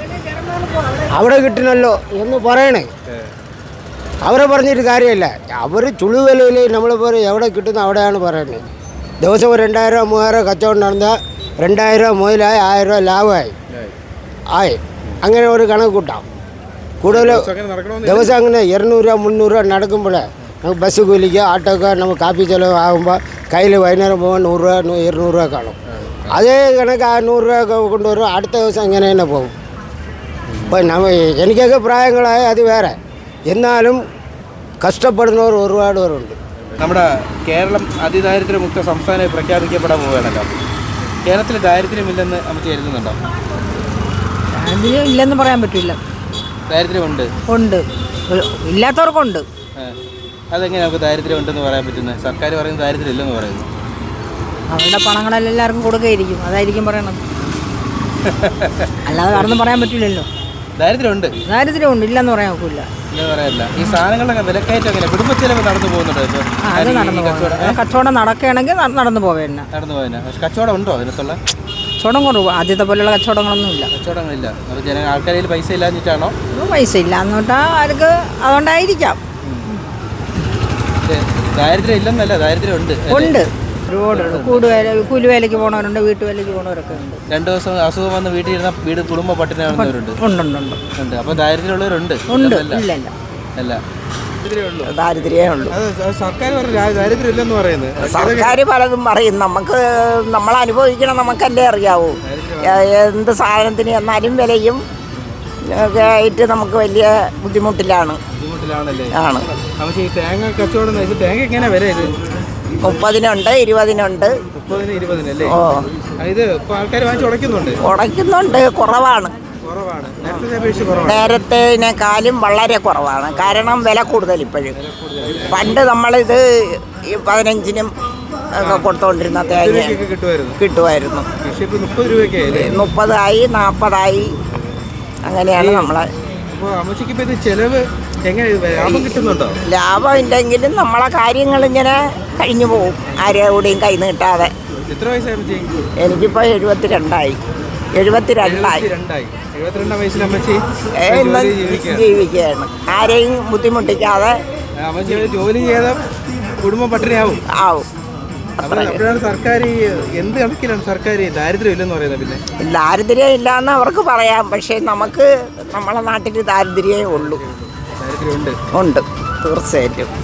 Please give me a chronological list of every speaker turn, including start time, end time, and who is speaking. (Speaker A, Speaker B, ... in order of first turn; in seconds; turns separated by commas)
Speaker A: 1.1-2.9, Speaker A: 4.2-8.6, Speaker A: 9.2-13.5, Speaker A: 14.6-16.2, Speaker A: 17.0-17.5, Speaker B: 17.1-18.3, Speaker A: 18.0-25.8, Speaker B: 25.9-26.4, Speaker A: 26.3-29.5, Speaker B: 30.5-30.8, Speaker A: 30.7-33.0, Speaker A: 33.5-34.0, Speaker A: 34.8-36.4, Speaker B: 36.8-40.5, Speaker B: 41.3-43.2, Speaker C: 44.6-46.0, Speaker B: 46.7-47.3, Speaker C: 47.5-49.5, Speaker B: 50.5-53.7, Speaker C: 54.7-57.2, Speaker B: 58.2-59.6, Speaker C: 59.1-60.3, Speaker B: 60.8-61.3, Speaker C: 61.4-62.9, Speaker B: 63.1-67.8, Speaker C: 66.6-69.7, Speaker B: 69.7-71.4, Speaker C: 72.0-73.9, Speaker B: 73.9-76.3, Speaker C: 76.5-79.2, Speaker B: 81.0-83.4, Speaker C: 83.1-87.2, Speaker B: 84.1-84.8, Speaker B: 87.3-90.2, Speaker C: 89.7-90.8, Speaker B: 91.0-92.9, Speaker C: 92.3-93.1, Speaker B: 94.4-94.9, Speaker D: 94.9-95.7, Speaker B: 95.7-98.6, Speaker D: 98.0-104.8, Speaker B: 102.2-102.9, Speaker D: 105.7-108.2, Speaker B: 108.3-112.2, Speaker D: 109.1-109.4, Speaker D: 112.8-114.3, Speaker B: 114.5-115.5, Speaker D: 115.5-115.8, Speaker B: 116.2-117.8, Speaker D: 117.8-119.3, Speaker B: 119.6-121.4, Speaker D: 121.1-124.7, Speaker B: 124.7-125.8, Speaker D: 125.5-127.9, Speaker D: 128.6-130.0, Speaker B: 128.6-128.9, Speaker B: 129.5-130.6, Speaker D: 130.6-131.3, Speaker B: 131.4-132.8, Speaker D: 132.5-134.3, Speaker D: 135.2-136.1, Speaker B: 135.6-136.0, Speaker B: 136.5-139.6, Speaker D: 139.7-144.5, Speaker B: 144.9-145.8, Speaker D: 146.0-147.4, Speaker D: 148.0-148.8, Speaker B: 148.4-152.1, Speaker D: 151.0-154.3, Speaker B: 154.8-156.0, Speaker B: 156.6-157.4, Speaker D: 157.5-157.9, Speaker D: 158.6-159.0, Speaker B: 158.6-162.4, Speaker D: 162.6-167.4, Speaker B: 167.1-168.6, Speaker D: 168.7-170.1